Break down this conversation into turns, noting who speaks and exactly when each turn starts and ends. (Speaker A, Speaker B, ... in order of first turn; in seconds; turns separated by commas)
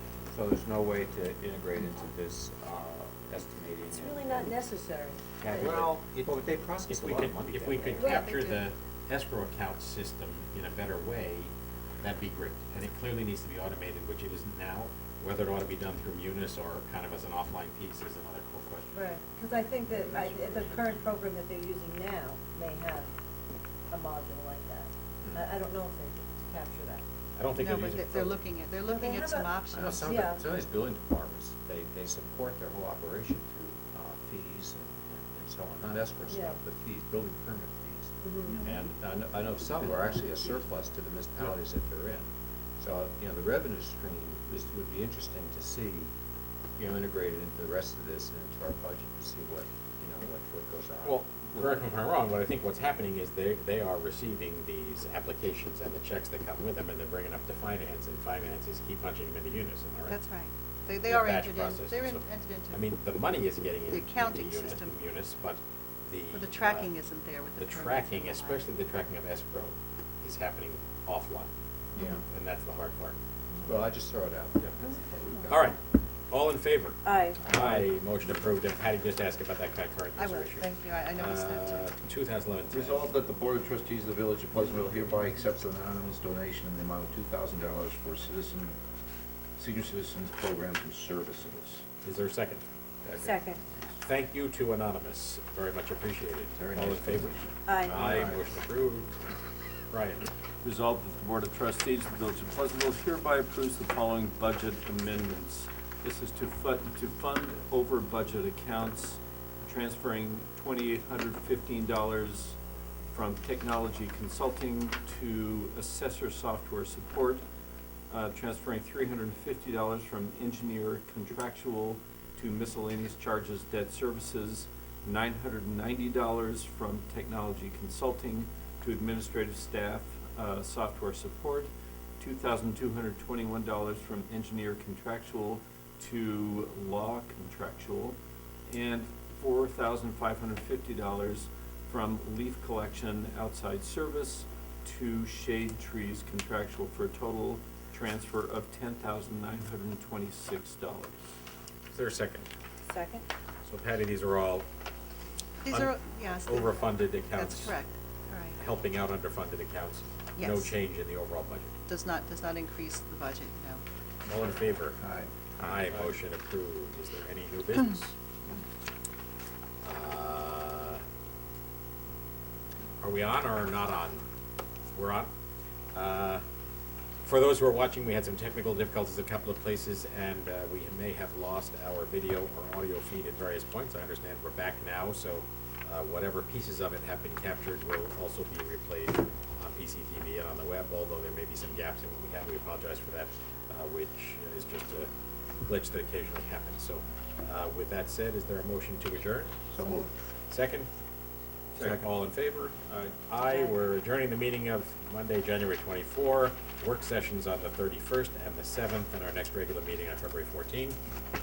Speaker A: 0.3-4.6, Speaker B: 3.9-5.8, Speaker A: 5.4-8.2, Speaker C: 6.2-19.0, Speaker B: 8.0-8.6, Speaker B: 18.9-23.1, Speaker A: 19.9-20.9, Speaker B: 23.9-27.0, Speaker C: 27.4-28.4, Speaker D: 27.5-30.2, Speaker B: 28.8-30.4, Speaker A: 29.7-46.1, Speaker B: 36.3-36.6, Speaker B: 38.2-38.7, Speaker A: 46.8-51.8, Speaker C: 51.0-60.2, Speaker D: 60.1-62.9, Speaker C: 61.0-66.9, Speaker D: 63.9-64.9, Speaker D: 66.3-68.7, Speaker C: 67.6-71.5, Speaker A: 71.9-72.2, Speaker C: 72.2-73.2, Speaker A: 73.6-75.7, Speaker C: 75.5-75.8, Speaker C: 76.3-83.1, Speaker B: 77.0-77.5, Speaker E: 77.5-77.8, Speaker D: 80.2-81.9, Speaker F: 82.7-88.8, Speaker F: 89.5-91.8, Speaker C: 92.0-92.6, Speaker A: 93.0-93.4, Speaker B: 93.2-93.6, Speaker C: 94.0-97.3, Speaker F: 96.6-97.5, Speaker B: 97.7-98.0, Speaker A: 97.7-98.4, Speaker C: 97.8-99.1, Speaker C: 99.9-100.3, Speaker E: 100.6-112.6, Speaker E: 113.1-117.4, Speaker E: 118.1-151.1, Speaker C: 151.9-152.5, Speaker B: 152.9-153.3, Speaker C: 153.6-154.7, Speaker D: 155.6-158.6, Speaker C: 155.7-157.8, Speaker C: 158.6-161.7, Speaker D: 160.3-160.7, Speaker D: 161.8-163.8, Speaker C: 164.2-165.0, Speaker F: 165.0-165.3, Speaker C: 165.6-168.2, Speaker C: 169.8-171.0, Speaker C: 173.0-174.2, Speaker C: 174.9-175.3, Speaker C: 175.9-176.4, Speaker C: 177.2-195.1, Speaker C: 195.6-199.8, Speaker C: 200.5-200.9, Speaker E: 201.7-202.0, Speaker C: 201.8-211.0